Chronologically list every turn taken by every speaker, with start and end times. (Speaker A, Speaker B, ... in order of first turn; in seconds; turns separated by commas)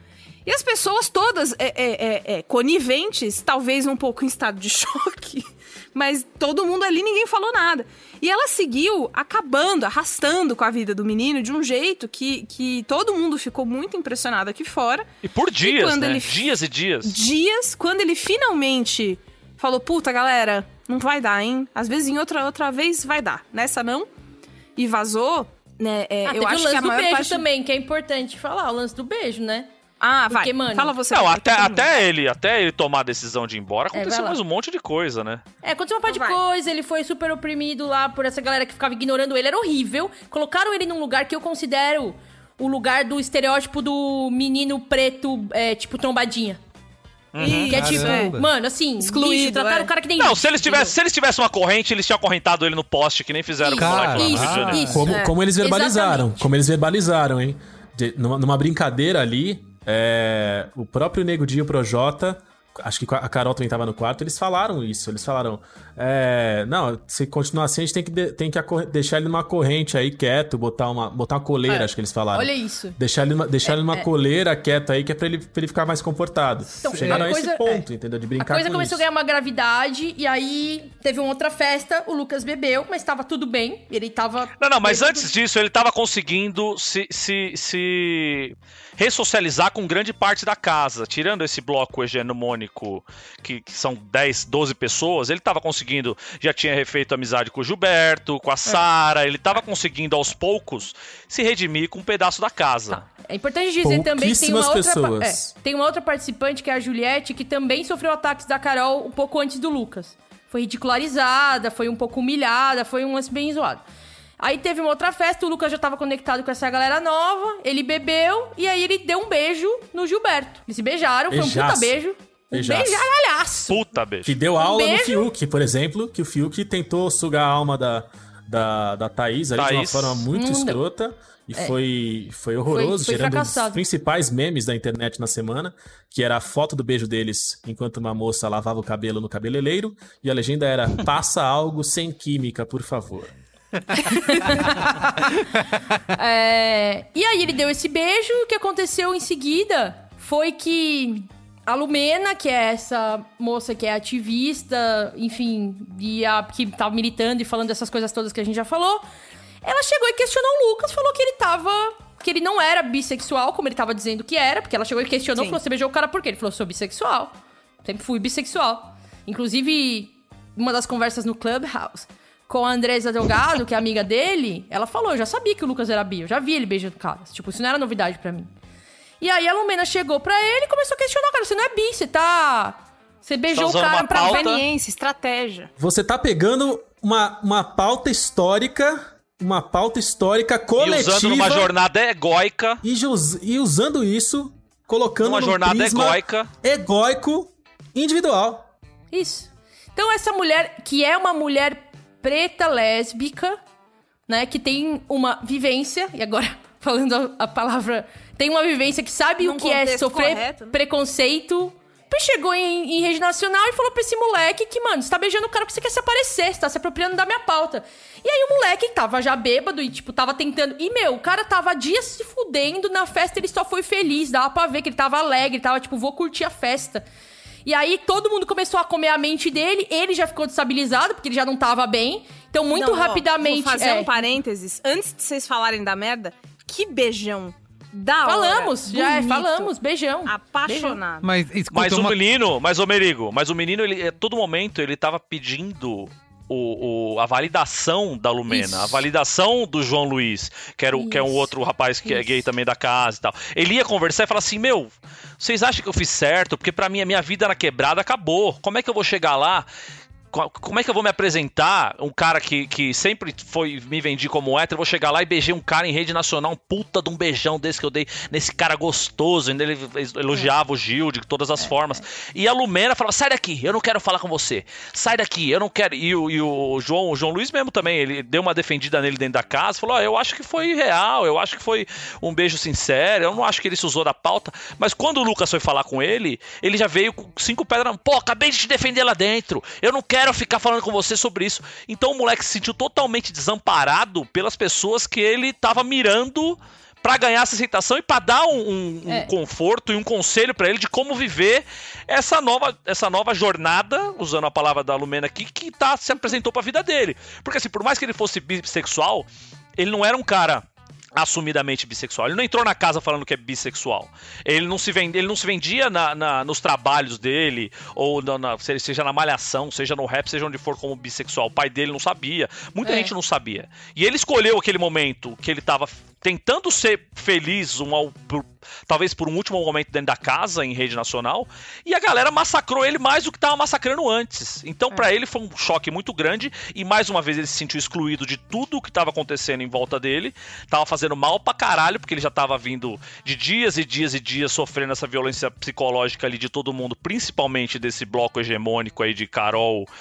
Speaker A: 0.5-15.1, Speaker B: 15.2-17.2, Speaker A: 15.6-16.5, Speaker A: 17.0-24.1, Speaker A: 24.8-27.4, Speaker C: 26.2-29.7, Speaker A: 30.0-31.9, Speaker C: 30.3-30.9, Speaker B: 31.1-35.4, Speaker C: 33.9-34.4, Speaker C: 35.6-46.6, Speaker A: 36.1-36.4, Speaker B: 47.3-47.7, Speaker A: 47.4-48.4, Speaker C: 47.5-50.9, Speaker D: 47.7-48.5, Speaker A: 49.0-49.9, Speaker B: 50.2-55.0, Speaker C: 53.6-56.5, Speaker D: 53.8-55.1, Speaker E: 55.0-79.0, Speaker A: 55.1-55.4, Speaker C: 72.3-73.0, Speaker C: 73.7-74.1, Speaker C: 76.8-77.8, Speaker D: 76.8-77.3, Speaker C: 78.4-85.2, Speaker B: 84.6-103.0, Speaker C: 103.2-113.8, Speaker E: 103.8-105.5, Speaker C: 114.4-123.8, Speaker E: 121.3-122.0, Speaker E: 122.5-123.1, Speaker B: 123.7-124.4, Speaker E: 124.2-143.3, Speaker C: 124.6-125.3, Speaker B: 129.6-130.2, Speaker C: 130.3-130.8, Speaker C: 132.7-133.8, Speaker C: 144.1-144.9, Speaker C: 146.2-159.0, Speaker C: 159.6-178.5, Speaker A: 165.3-165.6, Speaker C: 179.2-184.6, Speaker B: 183.5-184.6, Speaker A: 184.2-185.7, Speaker E: 185.8-191.7, Speaker B: 190.8-192.8, Speaker E: 192.8-198.7, Speaker B: 195.2-196.5, Speaker C: 199.1-203.6, Speaker C: 204.3-227.0, Speaker A: 209.4-210.8, Speaker C: 227.7-234.2, Speaker A: 232.7-239.7, Speaker C: 238.2-241.0, Speaker A: 240.3-241.3, Speaker D: 241.2-242.2, Speaker B: 241.7-259.7, Speaker C: 248.5-249.0, Speaker C: 250.9-251.5, Speaker B: 260.3-349.9, Speaker C: 322.8-323.1